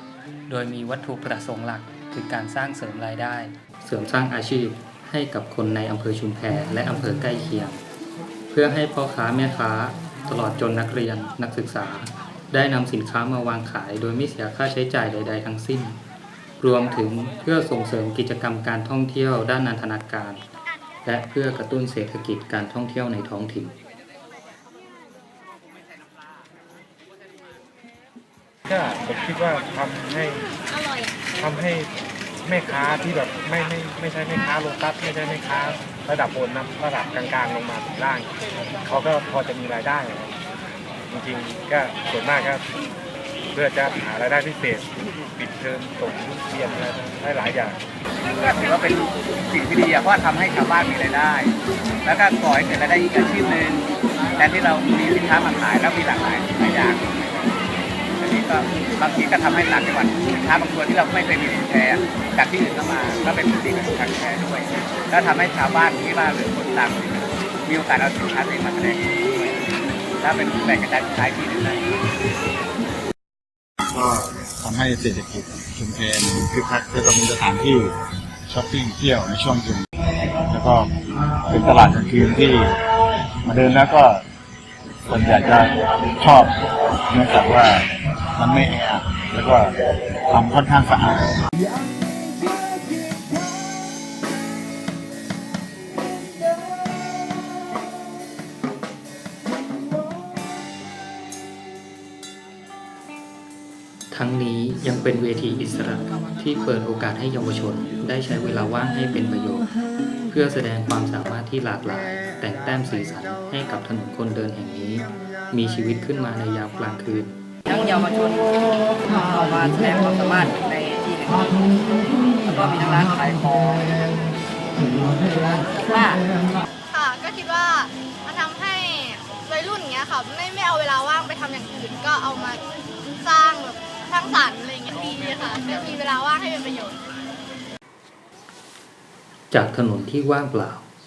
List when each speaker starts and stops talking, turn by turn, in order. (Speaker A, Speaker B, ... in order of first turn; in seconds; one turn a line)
Speaker A: 0.5-7.8
Speaker A: 8.5-16.0
Speaker A: 16.6-20.4
Speaker A: 21.1-23.8
Speaker B: 28.7-30.5
Speaker B: 31.4-31.9
Speaker B: 32.5-38.3
Speaker B: 38.8-40.4
Speaker B: 41.1-42.6
Speaker B: 43.5-47.8
Speaker C: 48.4-57.6
Speaker C: 58.2-69.6
Speaker C: 70.2-71.9
Speaker D: 73.9-77.9
Speaker D: 78.5-79.8
Speaker D: 80.5-80.9
Speaker D: 81.5-82.7
Speaker D: 83.5-84.2
Speaker D: 85.1-86.5
Speaker D: 87.1-89.8
Speaker D: 90.3-91.4
Speaker A: 104.1-109.7
Speaker A: 110.3-117.3
Speaker E: 117.7-124.2
Speaker E: 124.9-126.2
Speaker F: 126.9-132.6
Speaker F: 133.2-137.0
Speaker A: 139.5-140.8